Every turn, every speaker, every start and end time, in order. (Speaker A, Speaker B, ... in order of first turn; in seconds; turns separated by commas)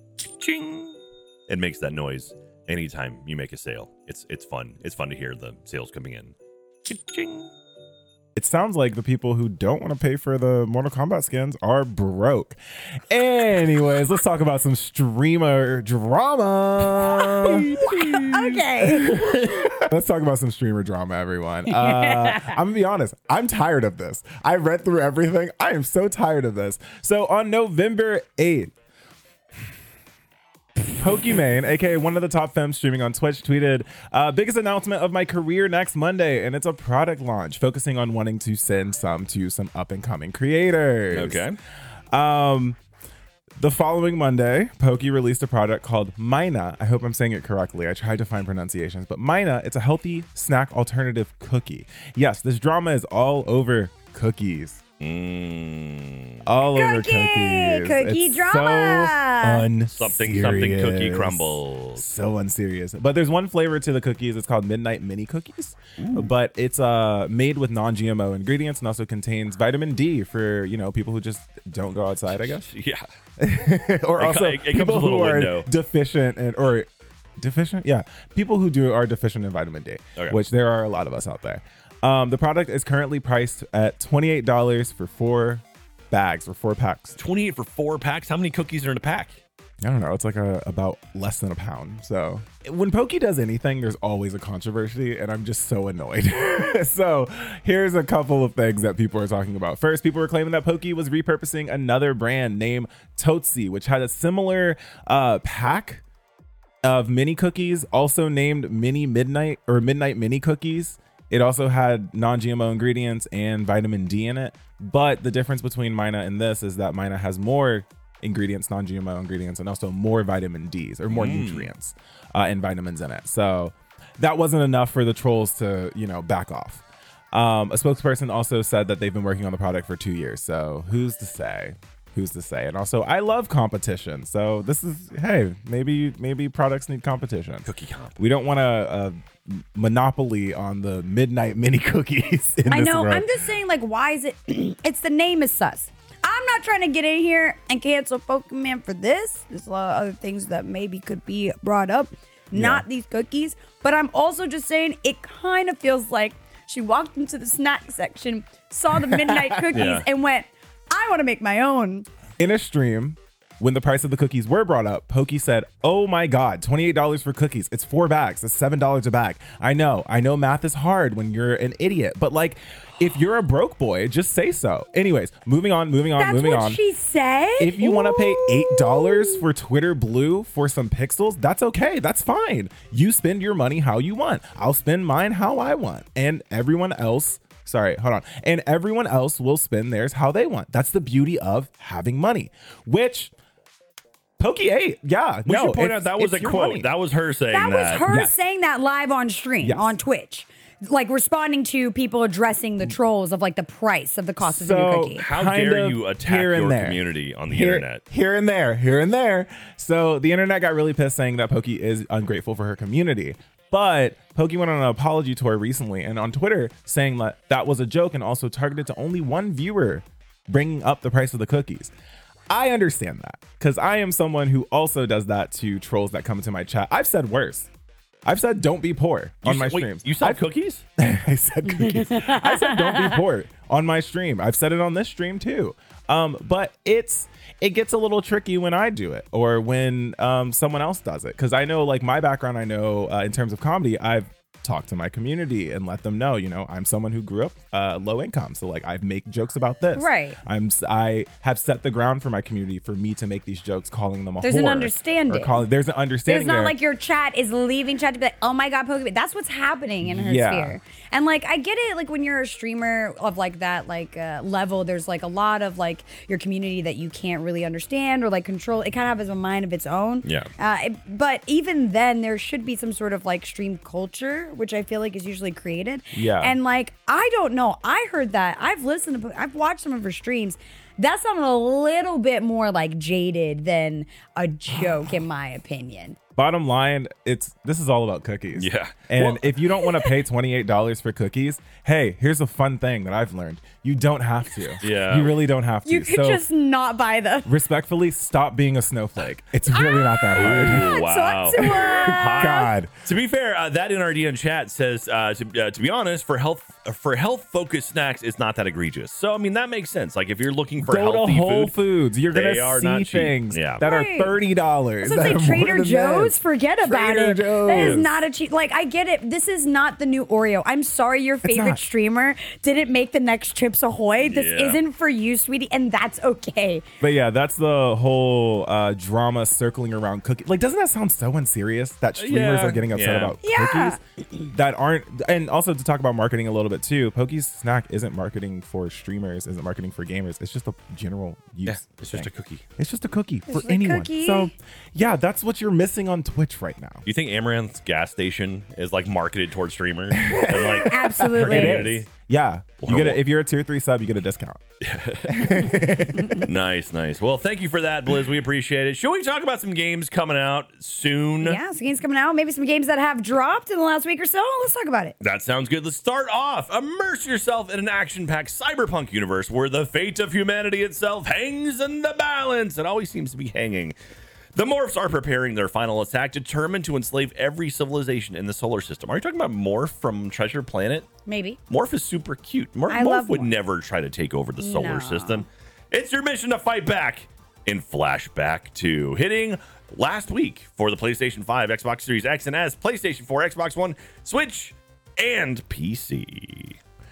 Speaker A: 0.4-0.9, Speaker A: 1.5-7.5, Speaker B: 8.3-28.7, Speaker C: 17.3-19.6, Speaker C: 21.7-22.6, Speaker B: 30.9-41.4, Speaker A: 41.1-41.6, Speaker B: 42.1-42.8, Speaker B: 43.6-54.8, Speaker A: 55.0-56.4, Speaker B: 56.4-72.6, Speaker C: 56.7-59.7, Speaker A: 59.9-62.1, Speaker A: 66.0-66.3, Speaker A: 72.3-73.0, Speaker B: 73.4-87.2, Speaker A: 74.2-75.7, Speaker A: 80.2-80.4, Speaker A: 87.2-89.4, Speaker B: 89.8-106.0, Speaker B: 106.8-143.4, Speaker A: 121.1-121.7, Speaker A: 137.7-138.2, Speaker C: 142.7-162.1, Speaker B: 152.5-152.8, Speaker B: 159.1-159.9, Speaker A: 159.7-160.0, Speaker B: 162.4-176.8, Speaker C: 176.2-179.4, Speaker B: 177.6-193.3, Speaker B: 194.4-196.9, Speaker A: 195.4-198.1, Speaker C: 197.5-205.2, Speaker B: 198.1-198.3, Speaker B: 199.6-200.0, Speaker B: 204.4-221.9, Speaker A: 205.1-208.0, Speaker B: 222.5-227.7, Speaker B: 228.2-230.4, Speaker A: 229.4-230.8, Speaker B: 231.0-256.7, Speaker C: 231.8-233.2, Speaker C: 249.9-250.4, Speaker C: 254.4-255.6, Speaker C: 256.3-286.2, Speaker B: 260.0-260.8, Speaker A: 270.2-270.5, Speaker B: 276.1-276.6, Speaker B: 286.4-296.4, Speaker A: 288.6-289.4, Speaker C: 289.8-290.1, Speaker A: 294.8-295.3, Speaker C: 295.9-297.5, Speaker B: 297.4-300.9, Speaker C: 299.7-302.7, Speaker A: 300.3-311.8, Speaker B: 301.6-302.9, Speaker B: 310.8-318.2, Speaker A: 312.3-313.8, Speaker C: 313.8-314.4, Speaker C: 315.0-326.8, Speaker A: 317.7-318.0, Speaker B: 321.4-321.8, Speaker A: 324.2-324.8, Speaker B: 327.0-347.0, Speaker A: 332.2-333.4, Speaker C: 333.4-334.0, Speaker A: 341.6-342.6, Speaker C: 343.5-344.5, Speaker A: 347.0-352.1, Speaker B: 350.2-354.6, Speaker C: 350.5-351.9, Speaker A: 352.8-353.2, Speaker A: 354.8-361.6, Speaker B: 355.2-356.5, Speaker C: 361.4-365.1, Speaker A: 365.2-373.9, Speaker A: 374.5-381.1, Speaker C: 381.2-381.6, Speaker A: 381.7-396.8, Speaker C: 382.9-383.5, Speaker C: 384.6-385.4